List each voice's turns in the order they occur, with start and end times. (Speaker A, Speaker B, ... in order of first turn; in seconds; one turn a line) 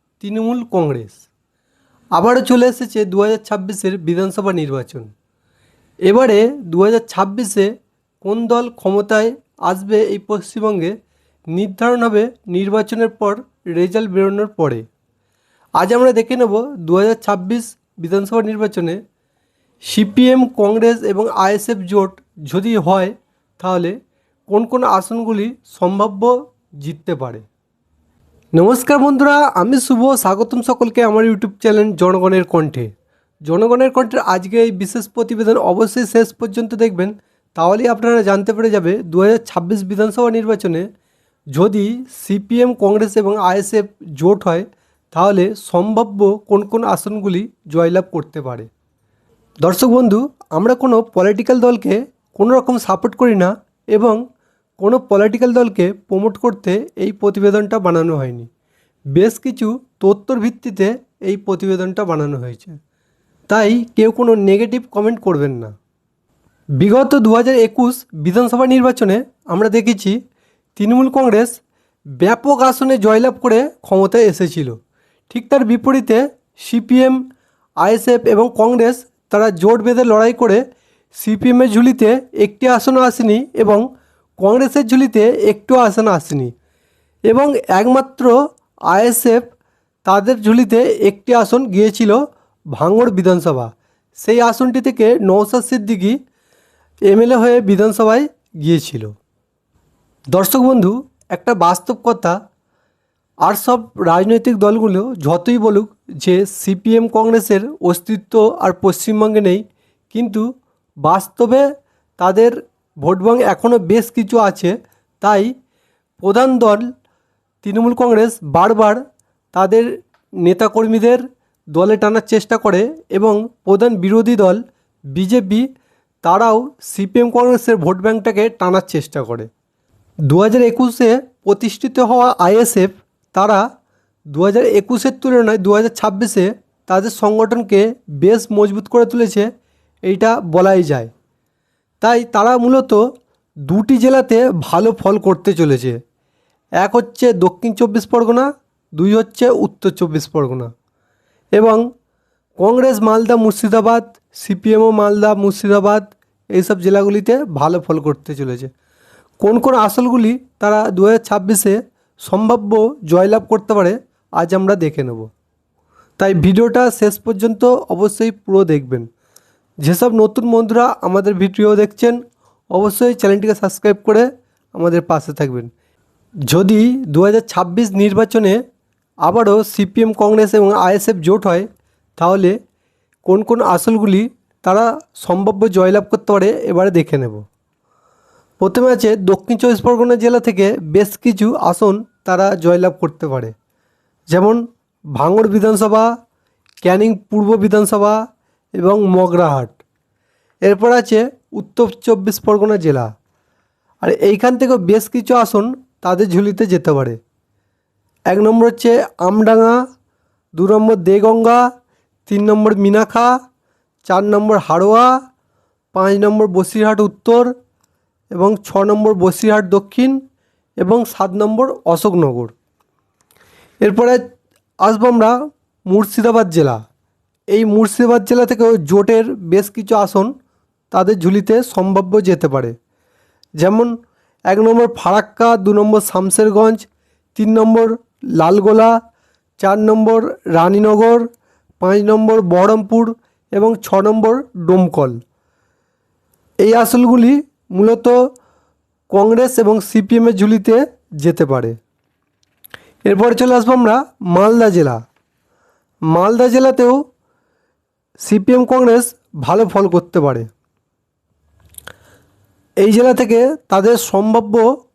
Speaker A: 0.2-1.3
Speaker A: 2.1-5.1
Speaker A: 6.1-10.9
Speaker A: 11.5-14.9
Speaker A: 15.8-19.0
Speaker A: 19.9-24.0
Speaker A: 24.5-27.4
Speaker A: 28.6-32.9
Speaker A: 33.5-40.9
Speaker A: 41.5-48.7
Speaker A: 49.6-54.2
Speaker A: 54.8-58.5
Speaker A: 59.1-62.8
Speaker A: 63.5-65.7
Speaker A: 66.8-70.2
Speaker A: 70.8-71.6
Speaker A: 72.2-74.8
Speaker A: 75.3-77.2
Speaker A: 77.8-80.6
Speaker A: 81.2-83.9
Speaker A: 84.4-86.5
Speaker A: 87.3-88.4
Speaker A: 88.9-89.5
Speaker A: 90.1-92.2
Speaker A: 92.7-96.2
Speaker A: 97.1-99.1
Speaker A: 100.3-102.4
Speaker A: 103.4-110.5
Speaker A: 111.0-111.7
Speaker A: 112.2-115.5
Speaker A: 116.2-116.9
Speaker A: 117.6-119.0
Speaker A: 119.5-119.9
Speaker A: 120.4-121.2
Speaker A: 121.7-124.6
Speaker A: 125.1-125.7
Speaker A: 126.2-129.5
Speaker A: 130.3-133.7
Speaker A: 134.3-139.5
Speaker A: 140.1-141.1
Speaker A: 142.0-143.0
Speaker A: 143.7-146.0
Speaker A: 146.8-150.7
Speaker A: 151.6-151.9
Speaker A: 152.6-158.7
Speaker A: 159.4-165.3
Speaker A: 166.2-169.1
Speaker A: 169.8-172.2
Speaker A: 172.7-175.7
Speaker A: 176.5-178.6
Speaker A: 179.2-181.7
Speaker A: 182.2-182.6
Speaker A: 183.2-187.4
Speaker A: 188.6-193.5
Speaker A: 194.3-194.6
Speaker A: 195.2-196.1
Speaker A: 196.8-198.2
Speaker A: 198.8-199.8
Speaker A: 200.7-203.1
Speaker A: 204.0-207.2
Speaker A: 208.3-209.8
Speaker A: 210.6-211.6
Speaker A: 212.3-213.3
Speaker A: 214.1-215.2
Speaker A: 215.9-217.5
Speaker A: 218.3-220.2
Speaker A: 220.8-222.5
Speaker A: 223.8-224.2
Speaker A: 224.8-225.3
Speaker A: 225.9-226.8
Speaker A: 227.5-230.3
Speaker A: 230.9-232.7
Speaker A: 233.6-233.9
Speaker A: 234.5-236.8
Speaker A: 237.4-238.9
Speaker A: 239.6-241.3
Speaker A: 241.8-245.2
Speaker A: 246.6-248.2
Speaker A: 249.1-251.8
Speaker A: 253.1-255.0
Speaker A: 256.1-257.0
Speaker A: 258.2-260.5
Speaker A: 262.8-264.7